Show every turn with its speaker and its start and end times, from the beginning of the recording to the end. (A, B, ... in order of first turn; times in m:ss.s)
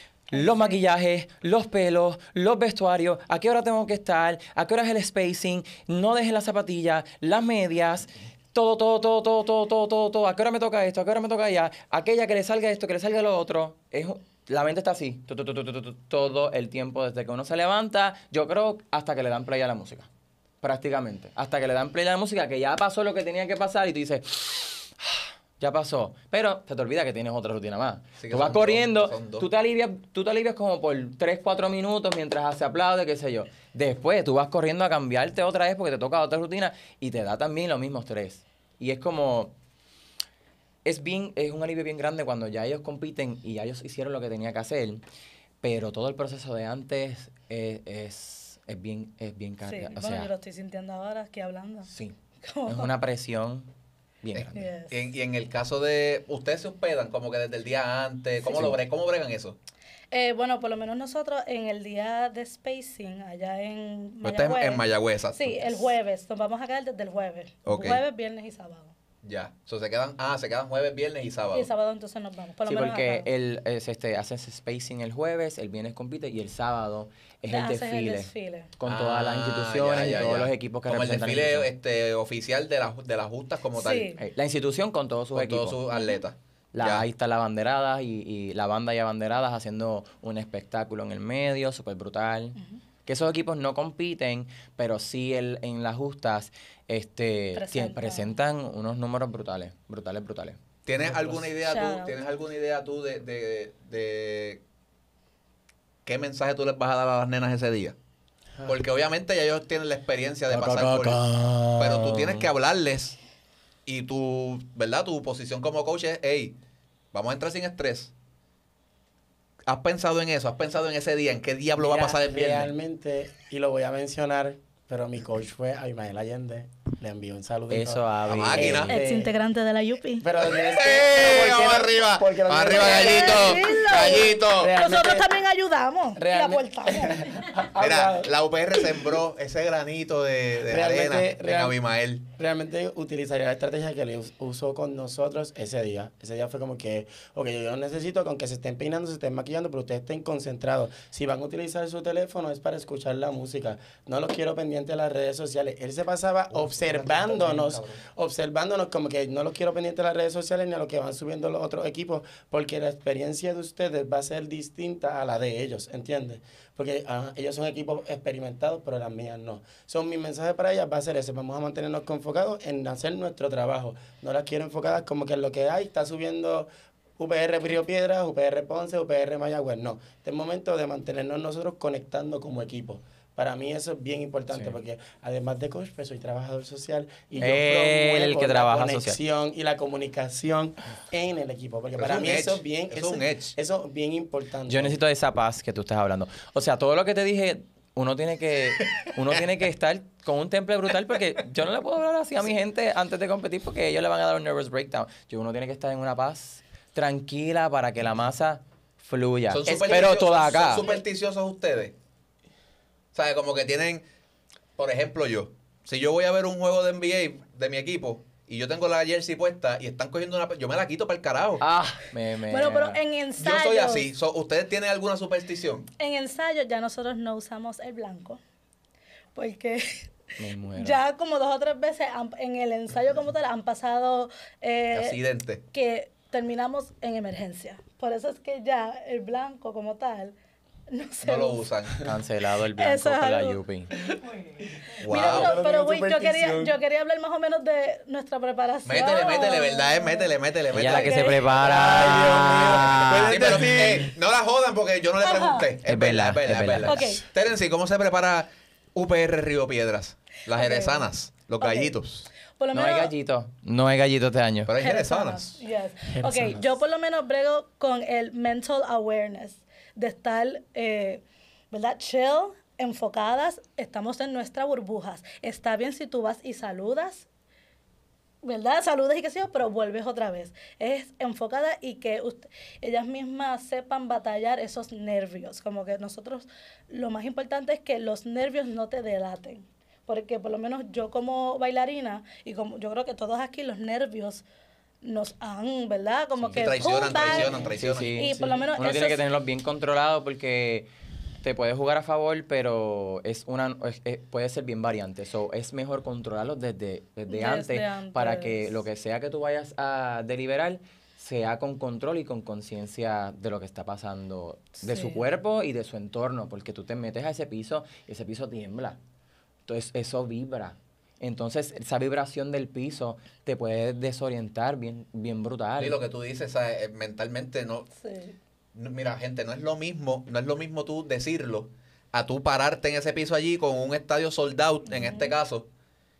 0:00.3-0:20.1 A
0:00.4-0:00.8 B
0:20.6-0:39.5 A
0:28.2-0:29.4 C
0:40.8-0:45.0 A
0:45.6-0:50.3 A
0:49.6-0:51.9 B
0:51.9-0:53.7 A
0:52.4-0:52.9 B
0:54.2-0:54.7 A
0:54.3-0:59.6 C
0:54.5-0:55.0 B
0:58.4-0:58.8 B
1:00.1-1:08.9 B
1:04.2-1:05.9 C
1:07.6-1:08.0 C
1:09.2-1:11.7 C
1:11.5-1:13.3 B
1:12.6-1:21.7 A
1:17.5-1:18.7 B
1:18.8-1:24.2 C
1:23.7-1:24.2 B
1:24.2-1:25.8 A
1:25.3-1:27.0 C
1:25.9-1:26.2 B
1:26.7-1:40.6 A
1:37.5-1:38.3 B
1:40.8-1:44.6 C
1:41.1-1:41.4 D
1:41.6-1:42.1 B
1:46.0-1:48.0 C
1:48.7-1:51.2 C
1:50.5-1:52.5 A
1:51.8-1:53.2 C
1:53.8-1:56.6 C
1:57.1-1:58.1 C
1:59.7-2:02.7 C
2:01.8-2:09.3 D
2:07.7-2:08.9 A
2:08.3-2:08.9 C
2:08.9-2:10.3 B
2:10.2-2:15.3 D
2:10.6-2:14.7 C
2:12.7-2:17.3 B
2:16.2-2:19.0 D
2:17.8-2:22.2 C
2:20.6-2:21.8 D
2:22.3-3:15.0 D
2:36.5-2:38.0 C
3:07.4-3:09.2 A
3:12.0-3:13.5 C
3:14.7-3:30.9 A
3:29.5-3:32.0 C
3:29.6-3:31.0 D
3:33.1-3:34.0 C
3:34.8-3:41.6 C
3:41.6-3:43.0 A
3:42.5-3:44.1 B
3:43.4-3:45.9 C
3:46.0-3:48.4 B
3:49.3-3:50.2 B
3:50.4-3:51.0 A
3:50.7-3:55.2 B
3:54.9-3:55.6 C
3:55.7-4:00.3 B
4:00.9-4:01.7 B
4:01.2-4:02.0 C
4:02.0-4:04.0 A
4:02.8-4:04.4 B
4:05.0-4:11.4 B
4:05.0-4:05.5 C
4:05.1-4:06.7 D
4:08.8-4:11.2 C
4:10.7-4:13.7 A
4:11.5-4:14.1 D
4:13.1-4:22.3 C
4:15.2-4:15.7 B
4:15.8-4:17.0 A
4:16.8-4:17.2 B
4:20.5-4:21.9 B
4:22.5-4:23.1 B
4:22.7-4:24.7 A
4:24.6-4:25.6 C
4:24.8-4:37.2 B
4:26.1-4:26.6 D
4:38.4-4:54.4 B
4:55.0-4:59.2 B
4:56.4-5:00.9 A
4:56.6-4:58.5 C
5:01.4-5:19.0 A
5:07.3-5:08.6 B
5:14.8-5:15.2 B
5:19.7-5:26.0 A
5:25.8-5:27.9 C
5:27.9-5:28.4 B
5:28.7-5:35.7 C
5:34.9-5:35.3 B